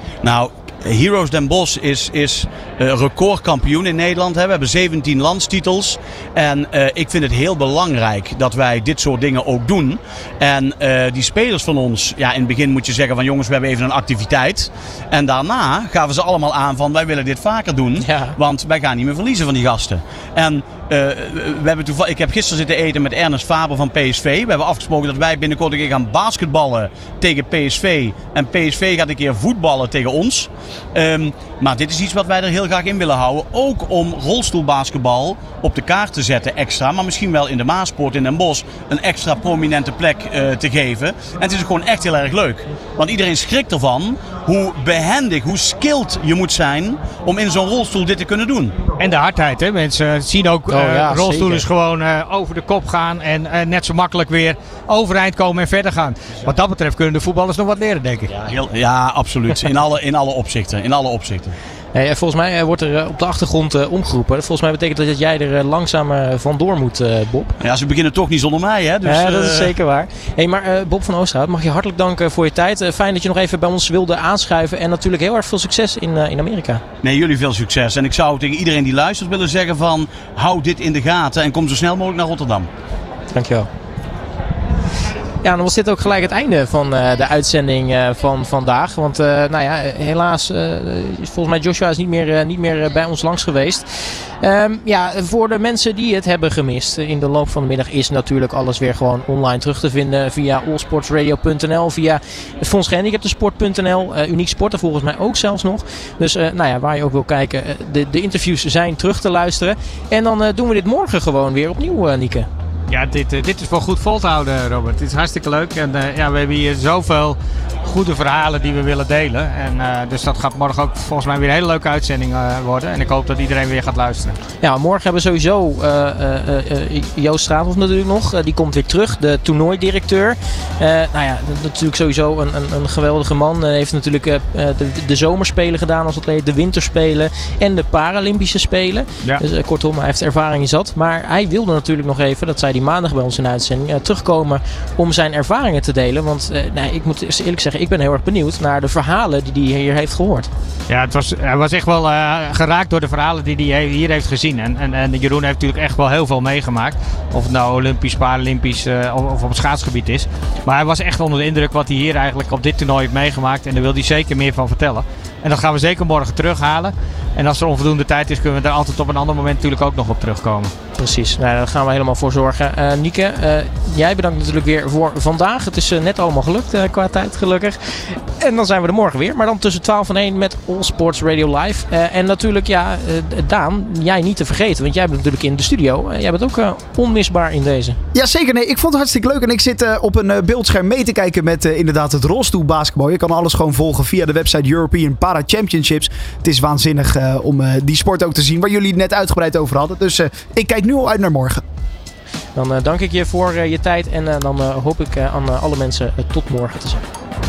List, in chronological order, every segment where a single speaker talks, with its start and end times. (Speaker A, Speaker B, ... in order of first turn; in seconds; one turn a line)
Speaker A: 0.2-48.8
Speaker B: 18.0-18.4
Speaker C: 49.0-58.3
Speaker B: 50.7-51.6
Speaker A: 58.4-61.5
Speaker B: 61.9-67.5
Speaker A: 67.6-69.7
Speaker B: 69.0-76.8
Speaker A: 77.0-82.7
Speaker B: 83.3-83.7
Speaker B: 85.4-93.9
Speaker B: 94.4-112.5
Speaker C: 112.9-124.4
Speaker B: 124.6-150.5
Speaker C: 150.9-170.7
Speaker B: 171.0-188.0
Speaker D: 188.1-201.6
Speaker B: 202.6-207.0